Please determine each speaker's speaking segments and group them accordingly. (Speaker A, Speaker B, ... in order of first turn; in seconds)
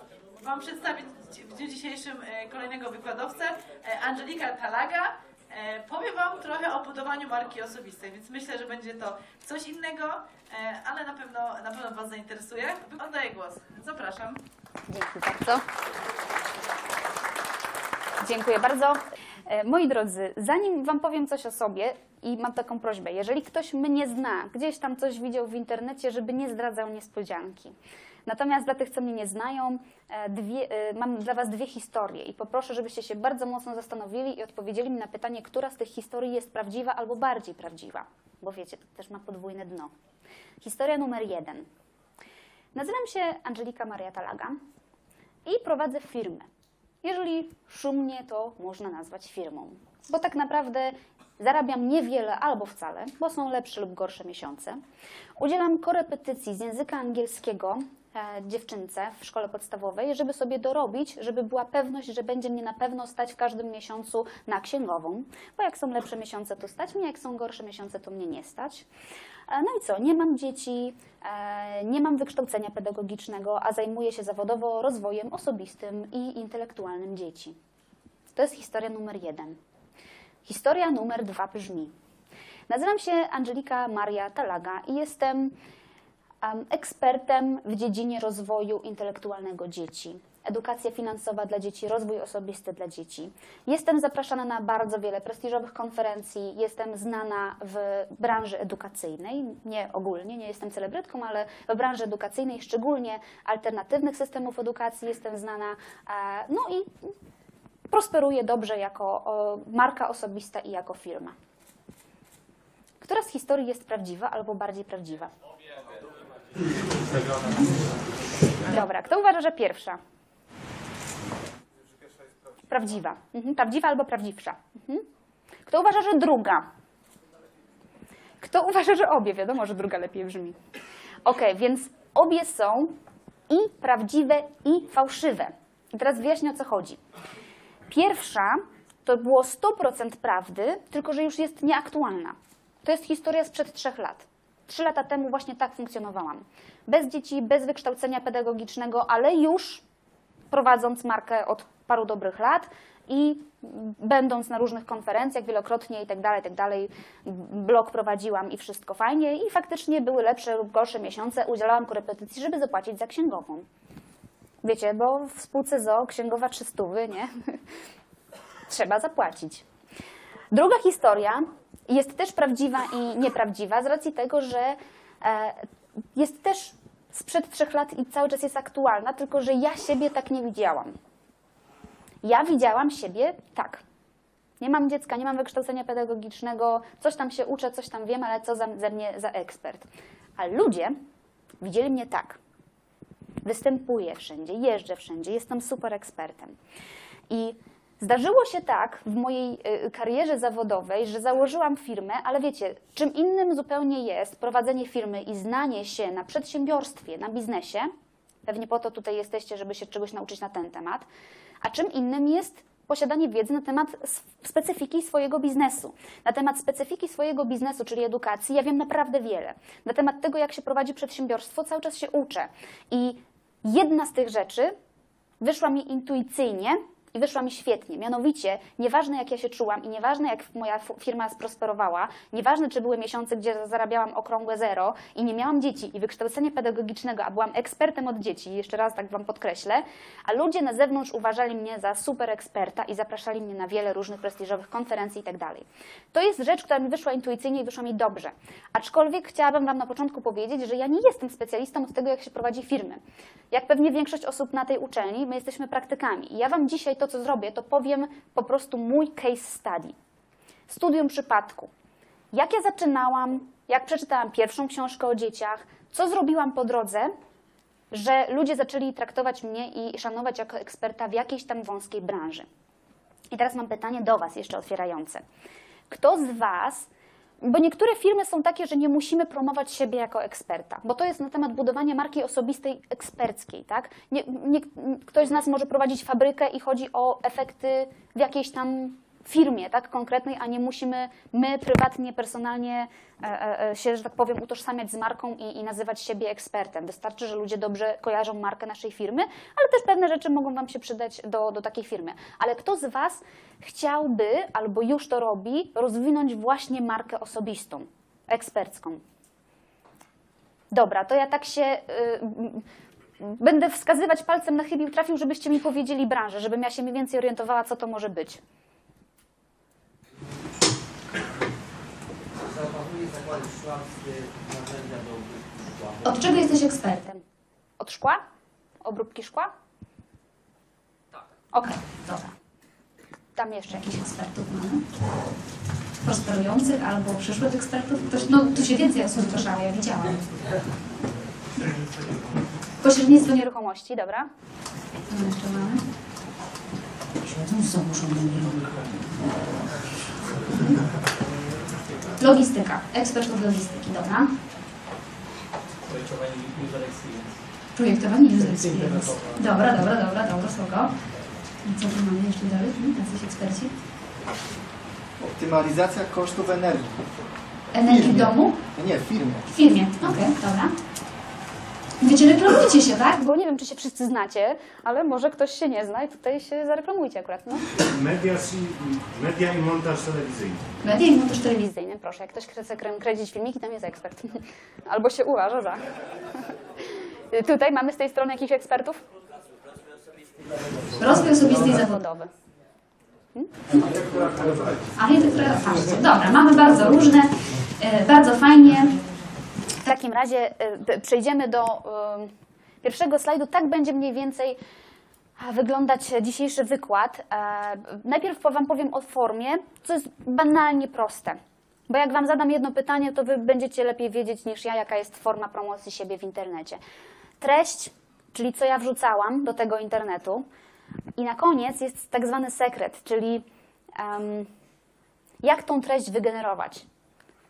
Speaker A: 0.4-14.4
Speaker B: 14.9-15.6, 18.2-39.9, 40.6-41.7, 42.8-44.6, 45.5-46.5, 47.0-54.8, 55.4-68.9, 69.5-77.6, 78.3-79.6, 80.5-81.9, 82.7-85.6, 86.4-107.1, 107.9-111.3, 113.0-115.3, 118.6-120.0, 122.7-125.0, 125.7-126.7, 128.4-130.6, 131.2-132.9, 133.5-137.0, 137.9-149.8, 150.5-163.7, 164.6-167.6, 168.7-169.6, 170.5-180.9, 182.2-183.8, 184.6-189.9, 190.4-190.9, 191.6-192.4, 193.4-196.6, 197.3-207.9, 208.5-211.1, 211.6-224.7, 225.4-259.9, 260.7-261.7, 262.3-267.1, 267.9-272.5, 273.3-275.2, 275.9-276.9, 277.4-309.0, 310.7-312.6, 313.2-318.4, 326.0-327.2, 327.8-328.2, 328.8-329.5, 331.5-332.3, 333.4-334.9, 336.0-340.2, 342.8-344.3, 345.1-345.8, 347.2-348.8, 352.2-354.3, 357.8-360.9, 361.6-363.7, 367.7-368.6, 369.5-370.7, 372.0-377.6, 380.8-385.9, 387.3-389.0, 391.0-392.3, 393.4-393.8, 395.0-399.0, 399.8-402.3, 402.8-404.6, 405.4-416.8, 417.4-420.5, 421.2-423.4, 424.0-424.5, 425.4-426.9
Speaker C: 116.9-117.8, 121.9-122.5, 322.4-326.0, 355.8-357.4, 358.5-359.4
Speaker D: 365.2-367.1, 367.9-369.4
Speaker E: 377.8-380.7, 393.8-394.8